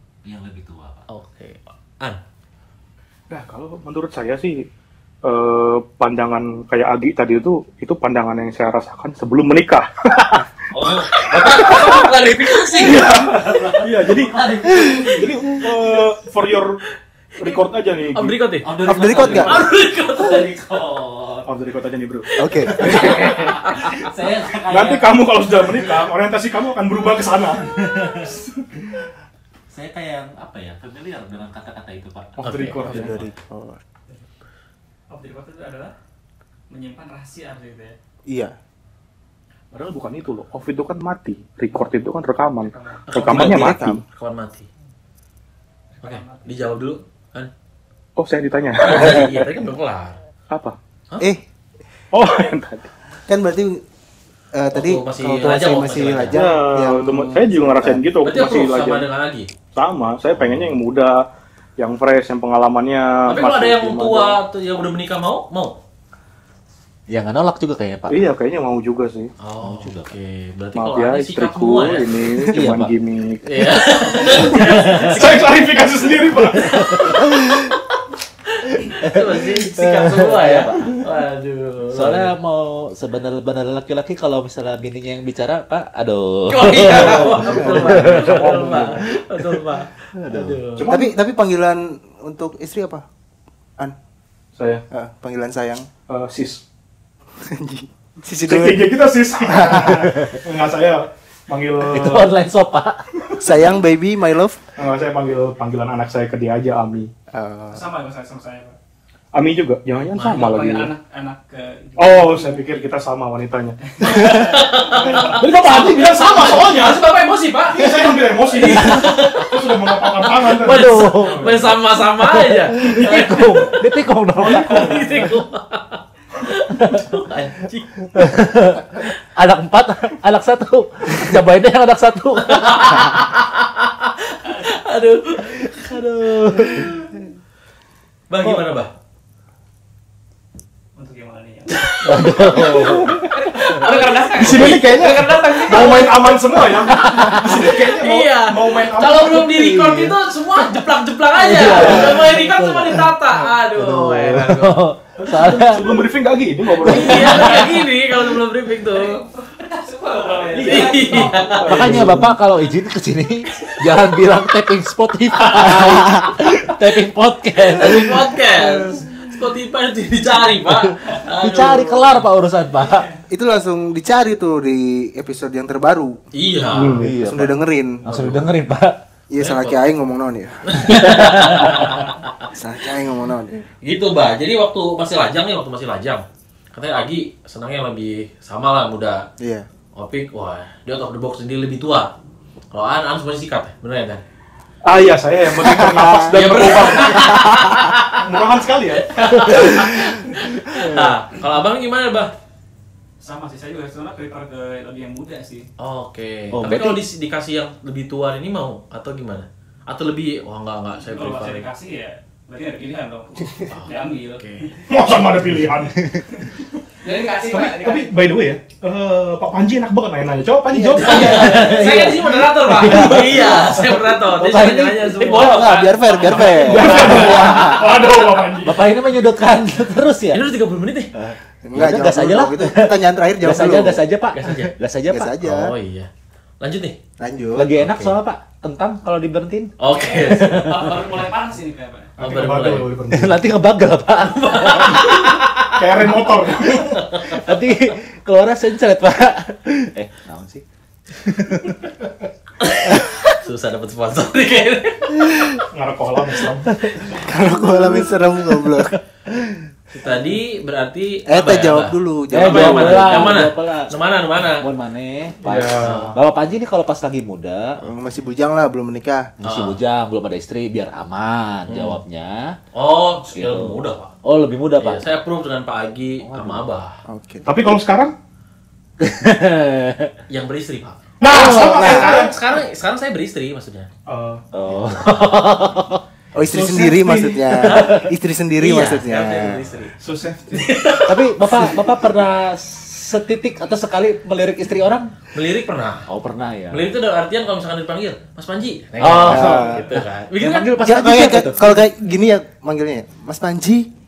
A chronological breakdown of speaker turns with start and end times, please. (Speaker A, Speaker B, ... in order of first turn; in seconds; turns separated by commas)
Speaker A: 0.2-1.1, Speaker B: 1.1-2.2, Speaker C: 3.3-4.7, Speaker C: 5.2-10.5, Speaker A: 10.7-12.1, Speaker B: 10.8-13.1, Speaker C: 11.2-12.1, Speaker A: 12.7-15.8, Speaker C: 12.8-14.4, Speaker C: 15.0-16.8, Speaker C: 17.4-18.4, Speaker B: 18.1-20.5, Speaker A: 18.6-21.5, Speaker D: 18.8-19.6, Speaker C: 21.4-23.6, Speaker D: 22.4-23.3, Speaker B: 22.5-24.1, Speaker A: 22.8-26.1, Speaker C: 24.6-28.6, Speaker A: 27.5-28.4, Speaker A: 29.7-33.3, Speaker C: 32.4-33.2, Speaker B: 32.5-32.8, Speaker D: 32.8-33.8, Speaker E: 35.1-35.9, Speaker E: 36.7-38.0, Speaker D: 38.3-38.5, Speaker C: 39.7-44.0, Speaker E: 42.7-43.0, Speaker B: 43.1-44.7, Speaker D: 43.1-44.0, Speaker E: 46.0-46.5, Speaker B: 46.0-47.5, Speaker C: 48.2-49.6, Speaker B: 48.8-50.2, Speaker C: 50.5-50.8, Speaker C: 52.1-52.9, Speaker D: 53.3-53.8, Speaker D: 54.5-58.0, Speaker B: 54.7-56.4, Speaker C: 56.3-59.1, Speaker B: 58.2-59.5, Speaker C: 59.8-61.2, Speaker B: 60.4-60.8, Speaker C: 61.8-64.4, Speaker B: 63.3-65.8, Speaker A: 67.1-68.2, Speaker C: 68.1-69.3, Speaker B: 69.4-72.5, Speaker A: 69.6-70.1, Speaker C: 70.8-73.4, Speaker A: 72.5-72.9, Speaker B: 73.4-75.6, Speaker A: 74.2-75.1, Speaker C: 74.4-76.9, Speaker A: 76.5-77.6, Speaker B: 76.6-78.0, Speaker B: 78.6-82.3, Speaker A: 78.9-81.0, Speaker A: 81.9-90.6, Speaker B: 86.5-90.9, Speaker C: 86.9-89.0, Speaker D: 87.4-88.0, Speaker C: 90.8-91.2, Speaker D: 90.9-93.0, Speaker C: 94.6-94.8, Speaker D: 94.9-95.9, Speaker C: 96.1-96.6, Speaker D: 97.4-98.9, Speaker C: 98.4-102.3, Speaker D: 99.5-100.1, Speaker A: 101.9-103.0, Speaker D: 103.4-104.6, Speaker C: 104.8-107.1, Speaker D: 107.3-107.8, Speaker E: 107.7-108.8, Speaker C: 109.3-110.9, Speaker B: 110.1-110.6, Speaker E: 110.3-112.7, Speaker C: 112.0-117.1, Speaker E: 113.9-115.4, Speaker B: 114.0-123.8, Speaker C: 117.7-121.8, Speaker A: 118.7-119.1, Speaker A: 120.5-121.6, Speaker A: 122.2-125.3, Speaker C: 122.8-123.5, Speaker B: 124.4-128.2, Speaker C: 124.4-125.1, Speaker A: 126.8-127.0, Speaker A: 128.1-133.2, Speaker B: 132.5-136.9, Speaker A: 135.5-137.1, Speaker B: 138.3-138.9, Speaker E: 140.9-142.2, Speaker B: 141.7-144.8, Speaker A: 142.1-143.3, Speaker E: 143.3-146.5, Speaker C: 144.3-149.6, Speaker A: 146.8-147.7, Speaker B: 147.6-154.8, Speaker A: 149.4-150.2, Speaker A: 151.4-155.9, Speaker C: 151.7-152.2, Speaker C: 155.2-157.6, Speaker A: 156.8-157.8, Speaker B: 156.8-159.2, Speaker E: 158.9-161.9, Speaker C: 160.6-161.0, Speaker B: 160.6-162.1, Speaker A: 161.2-169.1, Speaker C: 161.6-162.3, Speaker B: 165.3-166.0, Speaker B: 167.7-172.2, Speaker A: 170.6-173.1, Speaker E: 172.9-173.2, Speaker D: 173.3-176.2, Speaker B: 176.3-177.1, Speaker C: 176.7-177.2, Speaker A: 177.0-179.0, Speaker D: 177.2-178.0, Speaker B: 178.1-178.5, Speaker D: 179.3-181.3, Speaker B: 179.4-179.8, Speaker B: 180.7-182.5, Speaker A: 180.9-181.9, Speaker D: 182.5-183.6, Speaker B: 183.8-189.2, Speaker D: 189.4-189.7, Speaker B: 189.9-192.1, Speaker B: 192.7-194.2, Speaker C: 194.8-199.5, Speaker D: 195.6-196.4, Speaker B: 196.3-198.2, Speaker D: 197.1-197.8, Speaker B: 199.1-202.3, Speaker A: 199.4-201.2, Speaker E: 203.2-205.7, Speaker B: 205.8-211.7, Speaker A: 206.5-207.0, Speaker E: 211.0-214.8, Speaker B: 213.7-214.7, Speaker C: 214.9-216.1, Speaker E: 217.0-218.2, Speaker C: 217.5-221.9, Speaker D: 220.7-221.4, Speaker B: 220.9-227.2, Speaker A: 221.0-225.2, Speaker E: 225.2-226.9, Speaker D: 225.2-228.0, Speaker C: 226.5-228.8, Speaker A: 226.9-227.9, Speaker A: 228.6-230.5, Speaker B: 230.3-231.1, Speaker A: 231.1-235.4, Speaker D: 231.6-234.0, Speaker B: 234.3-234.7, Speaker D: 235.1-235.7, Speaker B: 235.4-236.1, Speaker B: 236.6-237.0, Speaker D: 237.2-237.8, Speaker A: 237.6-239.7, Speaker B: 237.8-238.1, Speaker B: 239.8-241.0, Speaker E: 239.9-242.1, Speaker A: 240.3-240.8, Speaker C: 242.2-243.4, Speaker B: 242.2-242.9, Speaker A: 243.1-245.3, Speaker B: 244.2-247.5, Speaker C: 245.8-247.0, Speaker A: 247.2-252.3, Speaker B: 252.6-255.6, Speaker A: 252.9-253.2, Speaker C: 255.7-256.8, Speaker A: 256.8-257.1, Speaker D: 257.1-259.0, Speaker A: 257.7-258.9, Speaker B: 259.9-264.7, Speaker D: 261.3-263.4, Speaker A: 262.3-263.9, Speaker A: 264.5-267.8, Speaker C: 265.4-266.1, Speaker B: 265.8-266.1, Speaker D: 267.8-269.3, Speaker A: 269.4-272.6, Speaker B: 269.4-269.8, Speaker B: 271.7-272.0, Speaker B: 272.7-274.1, Speaker A: 273.3-275.1, Speaker B: 274.8-277.0, Speaker A: 276.2-276.6, Speaker D: 277.1-277.6, Speaker C: 277.4-278.1, Speaker A: 279.0-280.1, Speaker B: 280.3-283.9, Speaker C: 281.2-282.3, Speaker D: 281.3-282.2, Speaker C: 284.1-284.4, Speaker A: 284.5-286.0, Speaker B: 284.9-285.3, Speaker D: 286.4-289.6, Speaker C: 286.4-287.4, Speaker A: 287.5-288.1, Speaker B: 287.7-288.0, Speaker B: 288.6-289.9, Speaker C: 290.0-290.8, Speaker B: 290.5-291.8, Speaker A: 291.1-295.1, Speaker B: 295.3-296.1, Speaker A: 296.1-296.9, Speaker B: 296.7-300.7, Speaker A: 299.0-301.9, Speaker D: 299.3-299.9, Speaker D: 300.8-303.9